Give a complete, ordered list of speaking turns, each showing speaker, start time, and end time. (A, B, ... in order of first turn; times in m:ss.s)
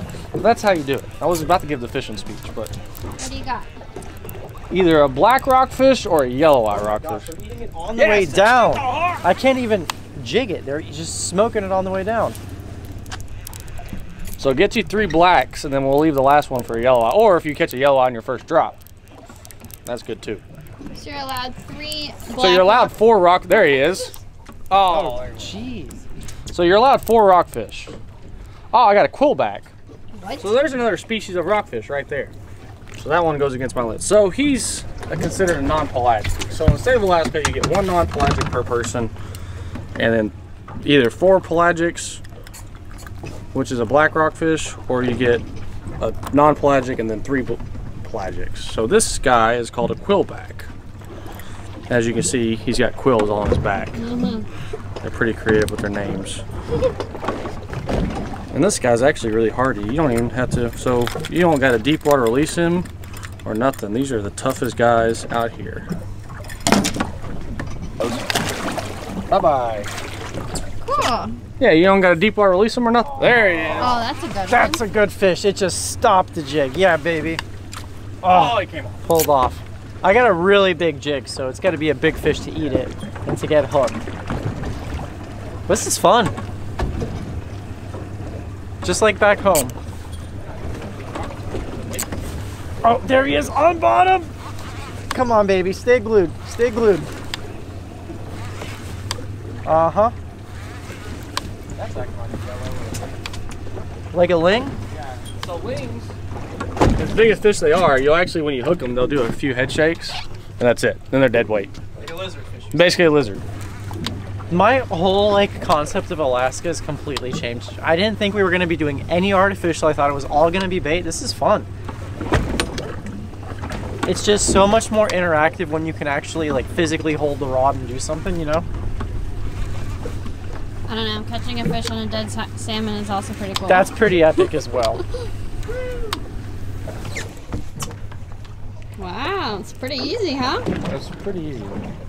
0:00.4-0:02.7 A
0:03.2-0:03.7 B
0:04.7-0:07.3 A
0:06.8-0:12.4 C
0:08.0-0:09.2 A
0:14.4-0:18.8 A
0:19.8-0:20.4 A
0:20.9-0:23.0 B
0:22.3-0:24.2 A
0:24.7-0:25.6 A
0:24.9-0:26.0 C
0:26.5-0:27.9 A
0:28.7-0:29.7 A
0:30.1-0:30.5 B
0:30.4-0:32.3 A
0:33.0-0:39.1 A
0:39.9-0:42.2 A
0:43.5-0:45.4 A
0:46.0-0:50.7 A
0:51.9-0:54.0 A
0:54.0-0:54.5 B
0:55.0-0:56.4 A
0:58.5-1:02.9 A
1:03.4-1:05.9 A
1:08.0-1:08.3 A
1:09.3-1:09.9 A
1:10.8-1:11.4 B
1:11.6-1:14.0 A
1:13.8-1:14.8 B
1:14.5-1:17.4 C
1:18.2-1:19.0 A
1:18.2-1:24.0 C
1:25.7-1:26.4 C
1:28.8-1:29.8 C
1:32.8-1:34.3 C
1:35.1-1:37.1 C
1:39.6-1:40.2 C
1:41.7-1:43.2 A
1:44.1-1:44.8 C
1:44.9-1:46.1 A
1:46.9-1:51.8 A
1:52.0-1:53.0 C
1:52.7-1:53.4 A
1:54.5-2:01.7 C
2:04.0-2:08.7 C
2:10.9-2:14.4 B
2:13.6-2:15.0 C
2:19.0-2:20.7 B
2:20.8-2:21.9 A